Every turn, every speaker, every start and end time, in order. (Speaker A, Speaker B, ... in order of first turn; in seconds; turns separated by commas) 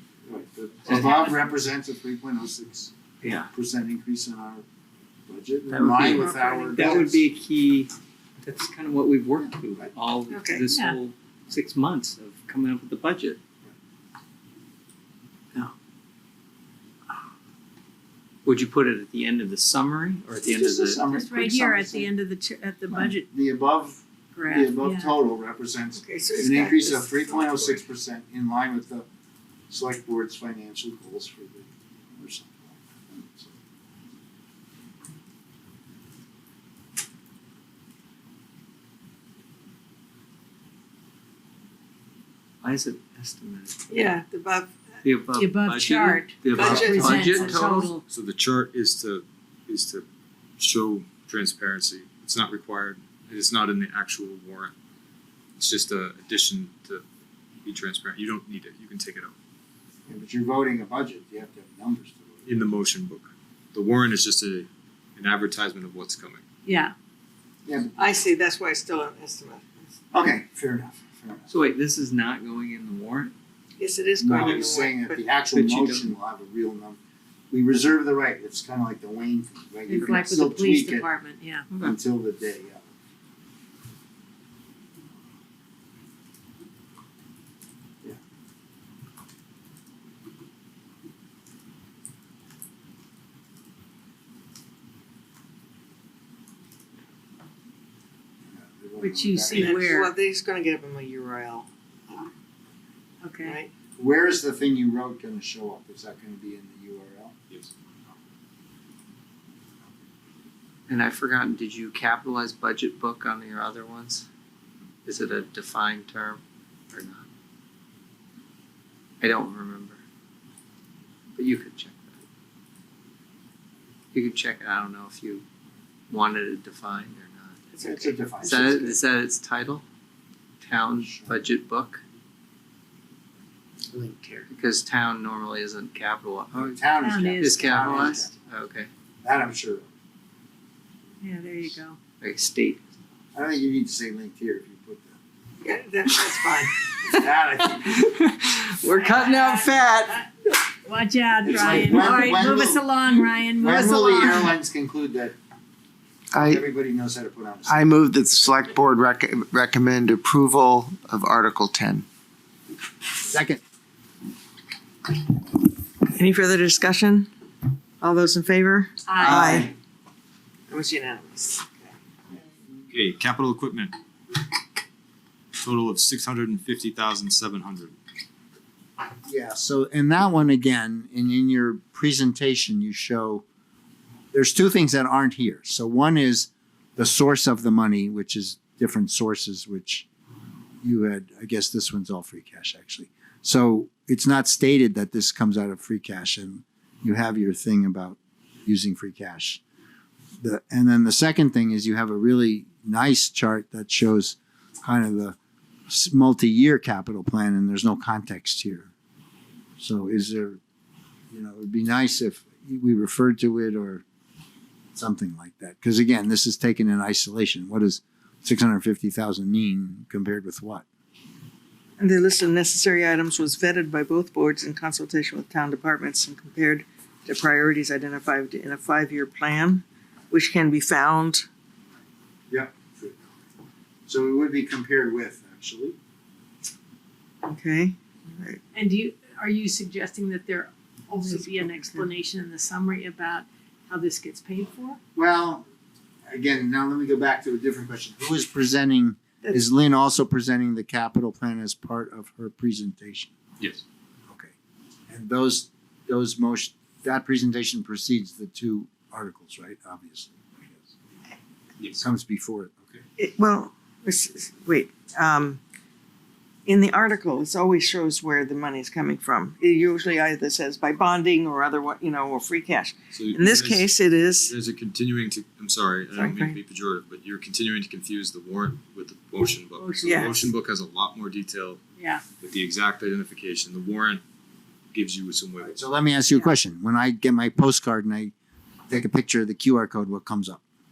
Speaker A: 0.3-2.9, Speaker B: 1.0-1.4, Speaker C: 3.2-3.5, Speaker A: 3.5-4.7, Speaker A: 5.3-7.2, Speaker C: 5.7-13.4, Speaker B: 6.1-7.0, Speaker D: 10.3-10.6, Speaker B: 10.7-11.0, Speaker C: 18.4-21.0, Speaker A: 20.5-22.1, Speaker B: 21.1-23.3, Speaker A: 22.9-29.1, Speaker B: 24.4-25.2, Speaker D: 26.0-27.8, Speaker A: 29.7-33.5, Speaker C: 42.6-44.0, Speaker D: 43.9-44.8, Speaker C: 45.0-47.9, Speaker B: 45.4-48.0, Speaker D: 46.5-47.4, Speaker E: 48.1-50.0, Speaker E: 50.6-54.7, Speaker E: 55.6-57.0, Speaker E: 57.6-59.3, Speaker A: 60.1-62.7, Speaker E: 62.5-66.4, Speaker B: 66.7-66.9, Speaker A: 67.7-68.2, Speaker D: 68.0-69.9, Speaker A: 70.1-71.5, Speaker C: 71.5-73.3, Speaker D: 73.8-75.2, Speaker A: 74.2-77.0, Speaker C: 75.5-76.1, Speaker A: 77.5-81.1, Speaker B: 79.9-81.7, Speaker C: 81.7-82.0, Speaker A: 81.8-82.9, Speaker A: 98.5-99.9, Speaker B: 99.0-100.1, Speaker D: 99.5-102.3, Speaker B: 103.2-103.6, Speaker D: 103.4-103.7, Speaker A: 104.0-107.3, Speaker C: 110.9-114.3, Speaker C: 115.0-117.3, Speaker C: 119.2-120.0, Speaker C: 121.3-122.2, Speaker C: 124.1-125.4, Speaker C: 126.1-127.6, Speaker D: 127.7-128.1, Speaker A: 127.9-129.0, Speaker C: 128.4-129.8, Speaker C: 130.6-132.0, Speaker A: 131.0-131.3, Speaker A: 133.9-134.4, Speaker C: 134.5-138.9, Speaker A: 136.5-138.3, Speaker B: 137.0-138.2, Speaker A: 139.2-139.9, Speaker B: 141.2-142.0, Speaker C: 142.2-142.8, Speaker A: 143.3-145.2, Speaker D: 145.6-146.8, Speaker A: 147.1-148.0, Speaker C: 147.7-150.3, Speaker B: 149.0-150.2, Speaker B: 150.8-154.6, Speaker A: 151.4-152.9, Speaker A: 153.6-155.3, Speaker F: 156.3-156.6, Speaker A: 156.3-157.9, Speaker F: 157.7-162.1, Speaker A: 163.2-163.6, Speaker D: 166.1-167.3, Speaker D: 168.0-169.7, Speaker B: 169.1-169.5, Speaker E: 169.2-169.7, Speaker D: 170.7-171.9, Speaker E: 172.9-173.9, Speaker E: 175.5-177.9, Speaker A: 179.3-183.4, Speaker A: 184.3-190.1, Speaker A: 190.8-199.6, Speaker A: 200.4-205.4, Speaker A: 205.9-208.9, Speaker A: 209.8-210.6, Speaker A: 211.3-214.0, Speaker A: 214.9-220.8, Speaker D: 222.0-231.5, Speaker A: 232.5-233.4, Speaker A: 234.1-236.0, Speaker D: 237.4-238.6, Speaker B: 238.7-245.0, Speaker D: 241.1-242.1, Speaker A: 245.2-245.7, Speaker A: 246.3-253.3, Speaker A: 255.1-260.9, Speaker E: 261.8-262.1, Speaker A: 262.0-262.7, Speaker D: 263.2-265.6, Speaker D: 266.7-274.5, Speaker E: 273.1-281.8, Speaker D: 276.1-276.6, Speaker B: 279.8-280.4, Speaker D: 280.0-280.4, Speaker B: 282.0-282.2, Speaker E: 282.4-284.2, Speaker E: 284.9-285.8, Speaker A: 285.6-288.3, Speaker A: 288.9-290.6